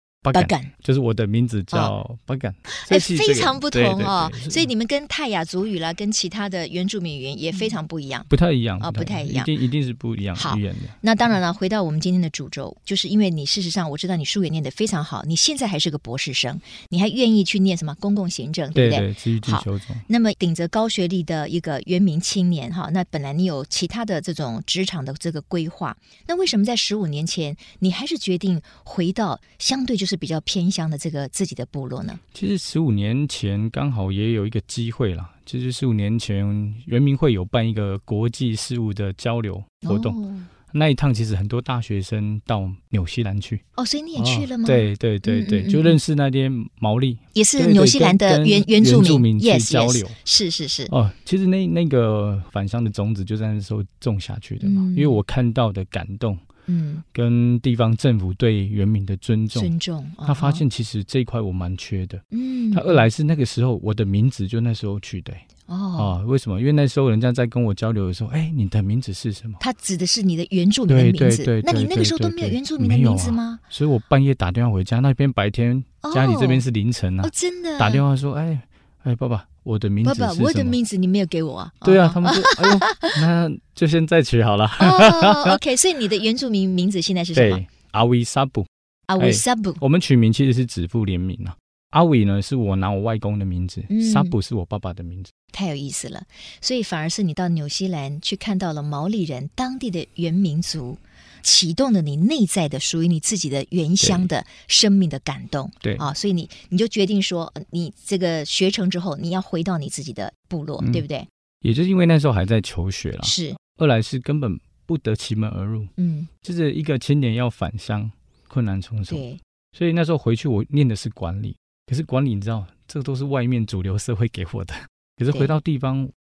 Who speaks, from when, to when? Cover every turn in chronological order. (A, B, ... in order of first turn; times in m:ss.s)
0:00.2-0:04.7 A
0:00.3-0:00.7 B
0:02.7-0:09.5 B
0:08.3-0:11.0 A
0:10.4-0:32.2 B
0:18.7-0:20.0 A
0:32.3-0:40.2 A
0:39.8-0:40.5 B
0:40.7-0:43.6 A
0:43.8-0:46.0 B
0:44.2-0:50.2 A
0:47.4-0:50.9 B
0:50.9-0:56.4 A
0:54.6-0:55.2 B
0:56.7-0:57.0 B
0:57.1-0:59.7 A
0:59.5-1:00.6 B
1:00.3-1:05.4 A
1:02.3-1:03.1 B
1:05.7-1:06.2 B
1:06.0-1:09.6 A
1:09.6-1:13.6 B
1:10.9-1:20.8 A
1:16.0-1:16.6 B
1:17.2-1:18.0 B
1:20.0-1:23.2 B
1:21.8-1:25.6 A
1:24.8-1:27.6 B
1:27.4-1:28.7 A
1:29.1-1:29.8 B
1:29.2-1:35.3 A
1:33.9-1:34.4 B
1:35.5-1:51.3 B
1:44.0-1:44.3 A
1:50.8-1:51.0 A
1:51.6-1:55.9 A
1:53.2-1:53.6 B
1:56.0-1:56.3 B
1:56.4-2:06.1 A
1:59.1-1:59.4 B